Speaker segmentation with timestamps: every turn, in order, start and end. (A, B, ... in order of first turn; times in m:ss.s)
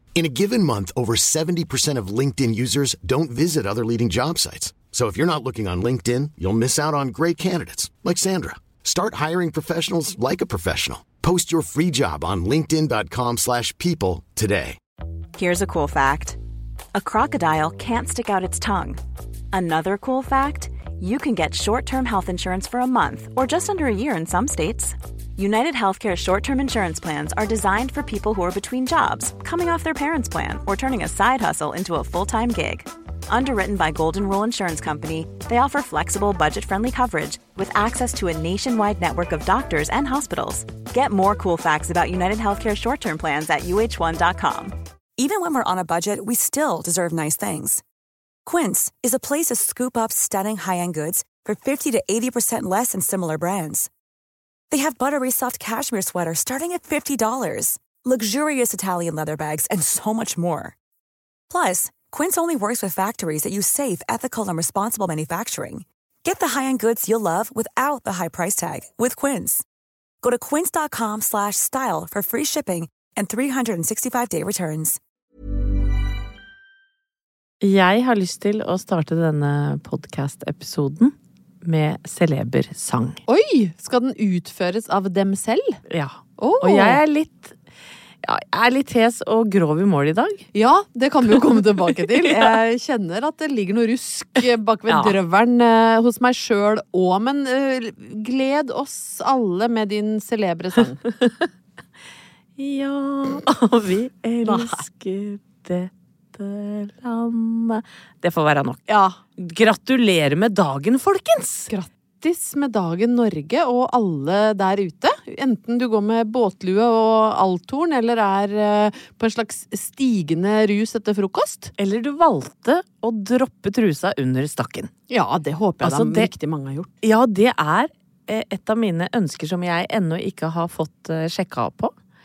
0:00.2-0:14.8 A
0:15.4-0:16.4 B
0:16.9-0:19.0 B
0:19.5-0:44.8 B
0:45.2-0:47.8 C
0:48.4-0:53.9 C
0:54.7-1:00.8 C
1:01.5-1:09.6 C
1:10.2-1:15.0 C
1:17.6-1:21.1 D
1:21.6-1:23.2 D
1:23.3-1:25.8 E
1:25.9-1:27.6 D
1:26.4-1:27.0 E
1:28.2-1:30.5 D
1:30.5-1:41.0 E
1:31.3-1:32.6 D
1:34.9-1:35.2 D
1:41.1-1:41.5 D
1:42.6-1:51.7 D
1:44.4-1:44.8 E
1:48.9-1:49.2 E
1:51.7-2:01.7 E
2:01.8-2:04.9 D
2:05.1-2:06.9 E
2:05.8-2:06.3 D
2:07.0-2:11.9 D